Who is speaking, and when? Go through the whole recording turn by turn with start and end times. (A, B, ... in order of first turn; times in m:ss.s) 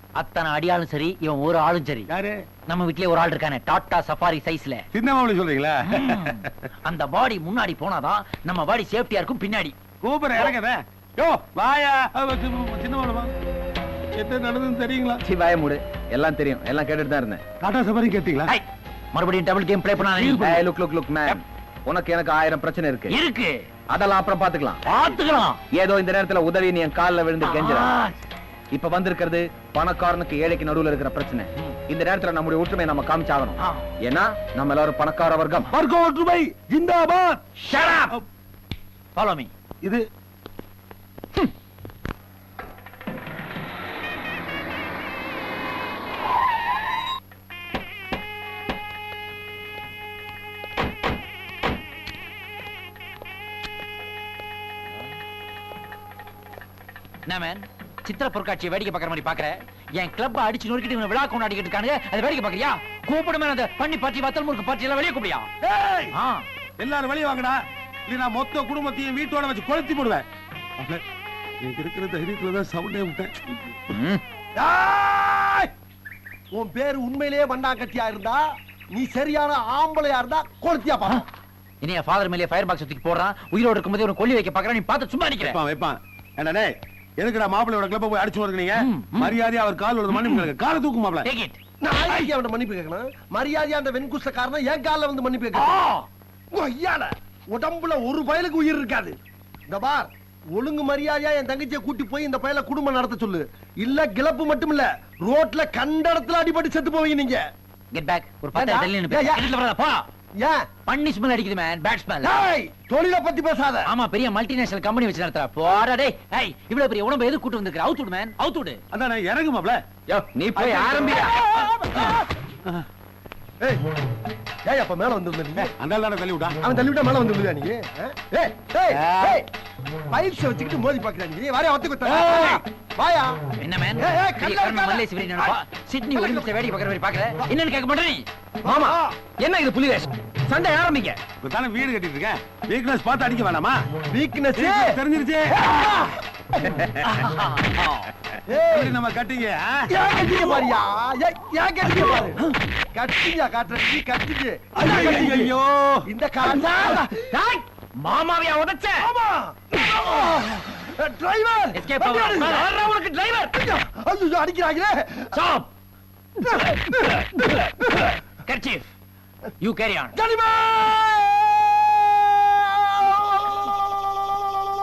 0:00.2-0:02.1 A
0:02.1-0:02.4 B
0:02.7-0:04.8 A
0:04.9-0:06.7 B
0:05.8-0:09.7 A
0:10.0-0:13.3 B
0:14.1-0:15.2 B
0:15.2-0:17.4 C
0:17.6-0:18.5 B
0:18.5-0:20.6 A
0:20.3-0:23.1 C
0:23.1-0:23.6 A
0:23.9-0:24.8 C
0:24.8-0:25.6 A
0:25.7-0:27.9 C
0:27.4-0:28.1 A
0:28.7-0:35.7 C
0:33.6-0:33.8 A
0:35.7-0:38.2 B
0:37.6-0:38.2 A
0:39.1-0:39.5 A
0:57.3-1:05.5 A
1:05.6-1:06.1 D
1:06.1-1:06.4 A
1:06.8-1:10.2 B
1:10.8-1:11.0 B
1:11.6-1:13.8 B
1:13.9-1:14.2 A
1:14.6-1:15.7 D
1:16.5-1:21.2 D
1:21.8-1:25.6 A
1:25.4-1:31.3 B
1:28.8-1:29.4 A
1:30.1-1:30.4 A
1:31.2-1:31.6 A
1:31.8-1:35.8 D
1:35.5-1:36.0 A
1:36.5-1:39.2 D
1:39.7-1:47.4 D
1:47.9-1:50.0 A
1:48.5-1:49.4 D
1:50.4-1:50.6 D
1:50.8-1:52.4 A
1:52.2-1:53.9 D
1:53.8-1:58.8 A
1:58.9-1:59.8 B
2:00.1-2:01.4 C
2:00.6-2:01.3 B
2:01.5-2:02.2 D
2:04.6-2:05.7 D
2:05.6-2:06.6 B
2:06.6-2:09.5 D
2:08.9-2:09.4 B
2:10.1-2:13.4 D
2:12.0-2:12.6 B
2:13.6-2:18.2 A
2:14.0-2:15.5 D
2:16.1-2:16.5 D
2:18.6-2:19.3 D
2:18.6-2:21.2 C
2:21.4-2:23.8 B
2:24.1-2:25.0 D
2:24.6-2:25.6 B
2:25.5-2:26.2 D
2:27.0-2:28.1 A
2:28.5-2:29.0 D
2:28.7-2:30.6 B
2:29.9-2:32.4 D
2:32.9-2:35.5 D
2:34.8-2:36.1 B
2:36.0-2:37.3 D
2:37.5-2:39.0 C
2:39.0-2:45.4 D
2:41.7-2:42.7 A
2:45.3-2:45.7 A
2:46.4-2:48.1 D
2:46.5-2:48.9 A
2:49.6-2:50.1 A
2:50.1-2:53.7 D